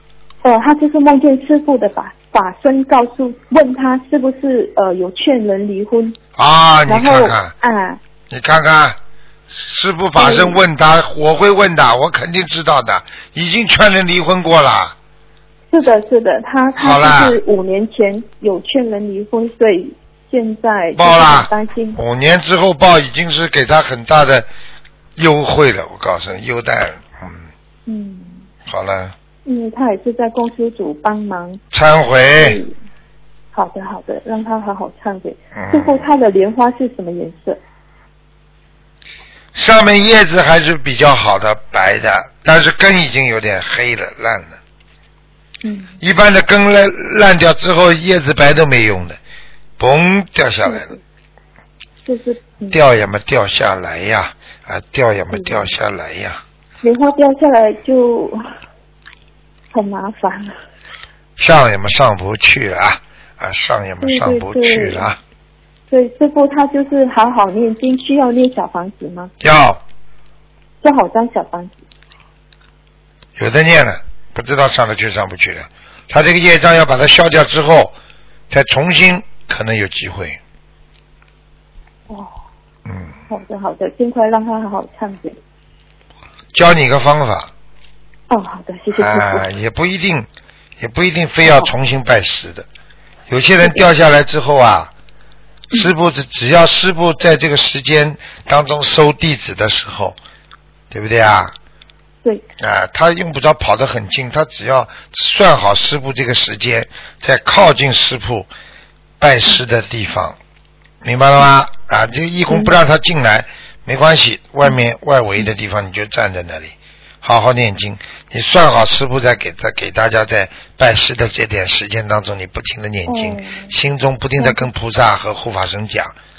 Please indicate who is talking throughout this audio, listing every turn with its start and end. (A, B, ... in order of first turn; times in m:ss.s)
0:00.4-0:06.2 A
0:06.4-0:07.5 B
0:06.9-0:08.0 A
0:08.3-0:09.0 B
0:09.5-0:14.9 B
0:10.2-0:10.6 A
0:15.7-0:22.0 A
0:16.8-0:17.4 B
0:21.0-0:24.5 B
0:25.2-0:27.5 B
0:27.9-0:28.5 A
0:28.6-0:29.1 B
0:29.4-0:31.6 A
0:31.7-0:32.6 B
0:32.4-0:32.7 A
0:33.5-0:37.6 A
0:35.5-0:36.0 B
0:39.5-0:44.6 B
0:45.6-0:46.0 A
0:46.0-0:49.2 B
0:49.8-0:50.9 B
0:50.6-0:51.0 A
0:52.0-0:52.8 A
0:52.7-0:56.4 B
0:55.3-0:55.7 A
0:56.8-0:58.4 A
0:59.7-1:00.6 A
1:01.4-1:05.2 B
1:04.0-1:05.1 A
1:05.9-1:09.3 A
1:09.4-1:09.8 B
1:10.8-1:11.8 A
1:13.4-1:17.9 B
1:18.5-1:20.4 B
1:22.1-1:22.3 A
1:22.8-1:23.1 B
1:23.3-1:25.4 A
1:26.5-1:27.5 B
1:28.3-1:29.5 A
1:29.0-1:30.3 B
1:30.8-1:32.6 B
1:33.3-1:34.9 B
1:35.7-1:40.2 B
1:40.9-1:41.5 B
1:42.6-1:48.5 B
1:49.2-1:50.4 B
1:51.0-2:06.1 B
1:52.5-1:52.7 A
2:03.0-2:03.7 A
2:04.4-2:04.7 A